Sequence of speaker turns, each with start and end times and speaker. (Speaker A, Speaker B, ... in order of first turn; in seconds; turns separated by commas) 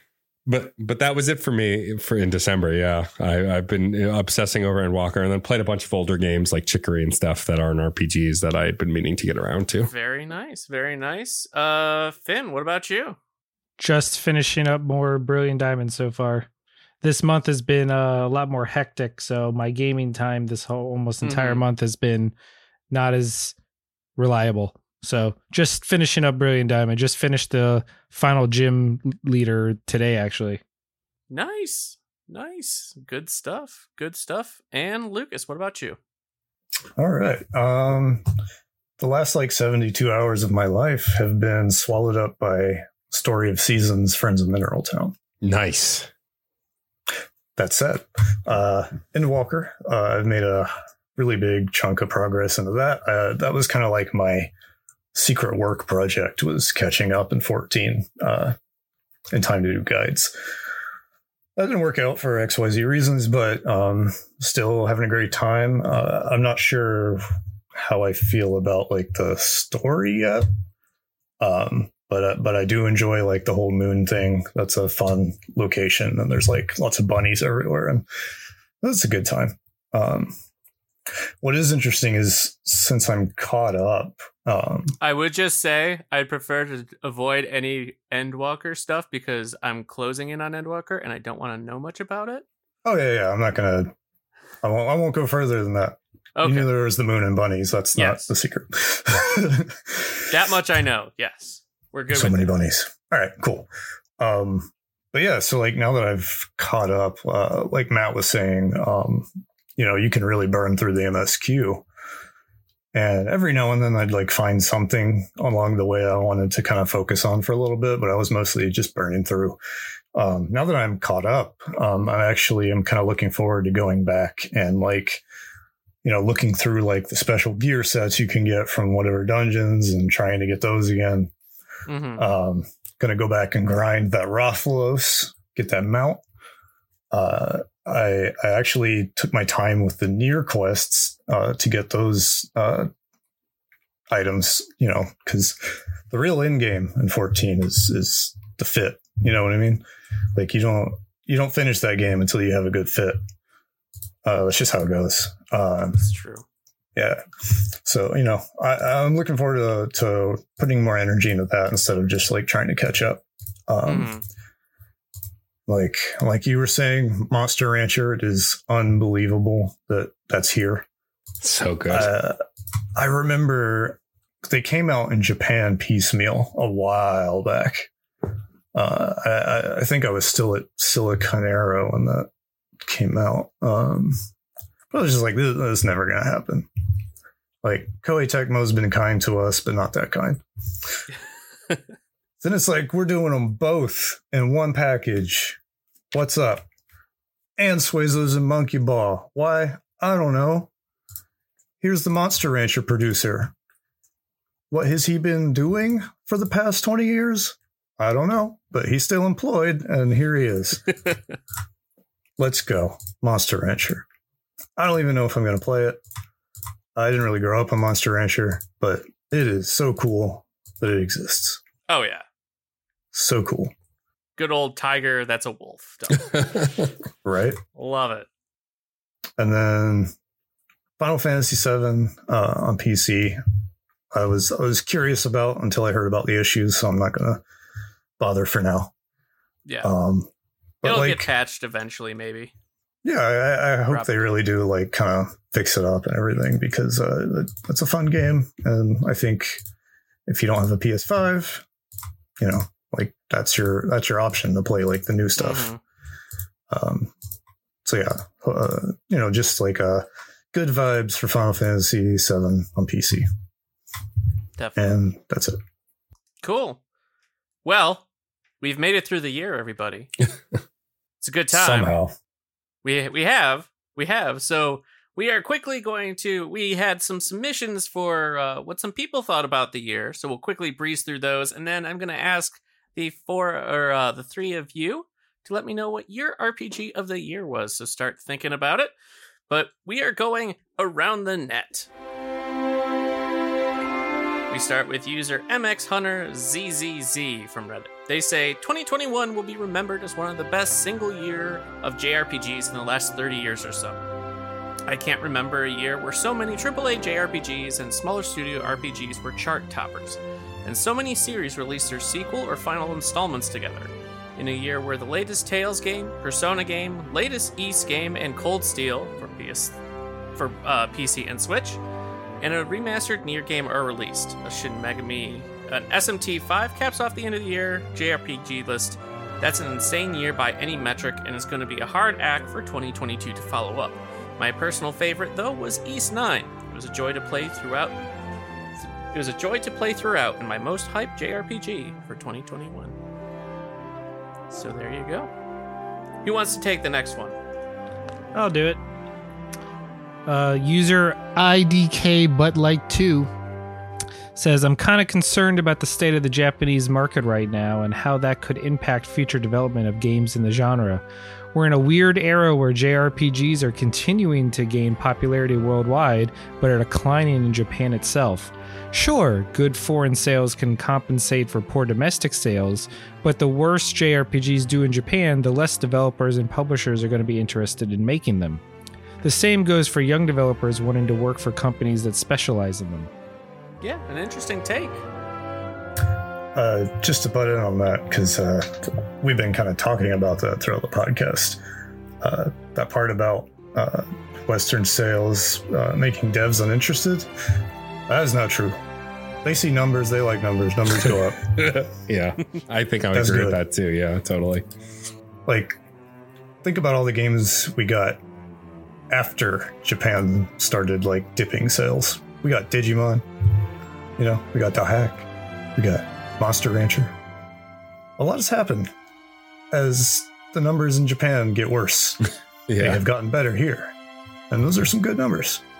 Speaker A: 0.5-9.9, Speaker B: 9.8-13.2, Speaker C: 13.8-16.5, Speaker C: 17.0-22.3, Speaker B: 21.2-21.6, Speaker C: 22.9-23.6, Speaker C: 24.2-30.6, Speaker B: 31.3-36.0, Speaker D: 37.0-38.2, Speaker D: 39.0-45.1, Speaker A: 45.4-46.1, Speaker D: 47.6-54.5, Speaker D: 55.1-58.6, Speaker D: 59.3-60.5, Speaker D: 61.6-67.2, Speaker D: 67.7-70.5, Speaker D: 71.4-78.0, Speaker D: 78.8-80.3, Speaker D: 81.4-85.0, Speaker B: 85.0-92.5, Speaker D: 92.8-93.9, Speaker D: 94.6-100.3, Speaker B: 96.4-96.7, Speaker B: 98.0-98.3, Speaker B: 100.3-102.5, Speaker D: 102.1-111.8, Speaker D: 112.9-119.6, Speaker D: 120.2-125.2, Speaker D: 126.0-131.3, Speaker B: 131.9-132.3, Speaker D: 132.2-136.2, Speaker D: 137.1-142.9, Speaker D: 144.1-149.8, Speaker D: 150.3-153.2, Speaker D: 154.2-156.1, Speaker B: 156.0-156.4, Speaker D: 156.9-164.1, Speaker B: 163.9-164.2, Speaker D: 165.7-170.9, Speaker A: 171.4-172.1, Speaker D: 171.9-172.4, Speaker D: 172.9-177.9, Speaker D: 178.7-182.3, Speaker D: 182.8-184.2, Speaker D: 184.9-186.7, Speaker D: 187.6-190.4, Speaker D: 192.4-195.6, Speaker D: 196.1-196.7, Speaker D: 197.6-200.7, Speaker D: 201.8-203.6, Speaker D: 204.7-211.0, Speaker D: 212.4-214.1, Speaker D: 214.8-216.0, Speaker D: 216.9-221.6, Speaker B: 221.9-222.2, Speaker D: 223.1-223.7, Speaker B: 224.4-226.7, Speaker D: 227.2-227.6, Speaker B: 227.8-228.3, Speaker D: 229.4-230.1, Speaker D: 231.0-233.4, Speaker D: 234.1-237.4, Speaker D: 238.2-238.9, Speaker B: 239.7-239.9, Speaker D: 239.8-240.3, Speaker D: 240.8-241.3, Speaker B: 240.8-242.5, Speaker D: 243.0-249.6, Speaker B: 243.9-244.3, Speaker D: 250.3-251.7, Speaker D: 252.4-255.7, Speaker B: 255.4-255.8, Speaker D: 256.7-257.1, Speaker D: 257.9-263.3, Speaker B: 264.6-265.0, Speaker D: 264.8-265.6, Speaker B: 266.4-266.8, Speaker B: 267.6-268.1, Speaker B: 268.6-270.1, Speaker B: 271.2-271.9, Speaker D: 271.5-272.1, Speaker B: 272.8-288.9, Speaker B: 289.5-291.9, Speaker B: 294.5-304.1, Speaker B: 304.9-319.8, Speaker B: 320.4-321.8, Speaker B: 322.4-338.0, Speaker B: 339.1-342.9, Speaker B: 344.5-345.3, Speaker B: 346.2-347.4, Speaker C: 348.3-348.8, Speaker C: 350.3-353.3, Speaker C: 354.4-361.0, Speaker C: 361.5-378.6, Speaker C: 379.2-383.1, Speaker B: 383.8-385.0, Speaker D: 386.6-391.6, Speaker D: 392.2-397.3, Speaker D: 398.1-398.8, Speaker D: 399.4-401.8, Speaker A: 401.6-404.7, Speaker D: 403.1-403.6, Speaker D: 405.5-405.8, Speaker D: 406.6-408.2, Speaker D: 409.1-413.2, Speaker D: 414.2-417.1, Speaker D: 418.2-418.9, Speaker D: 419.7-422.3, Speaker A: 422.7-423.0, Speaker D: 422.8-423.9, Speaker D: 424.5-425.6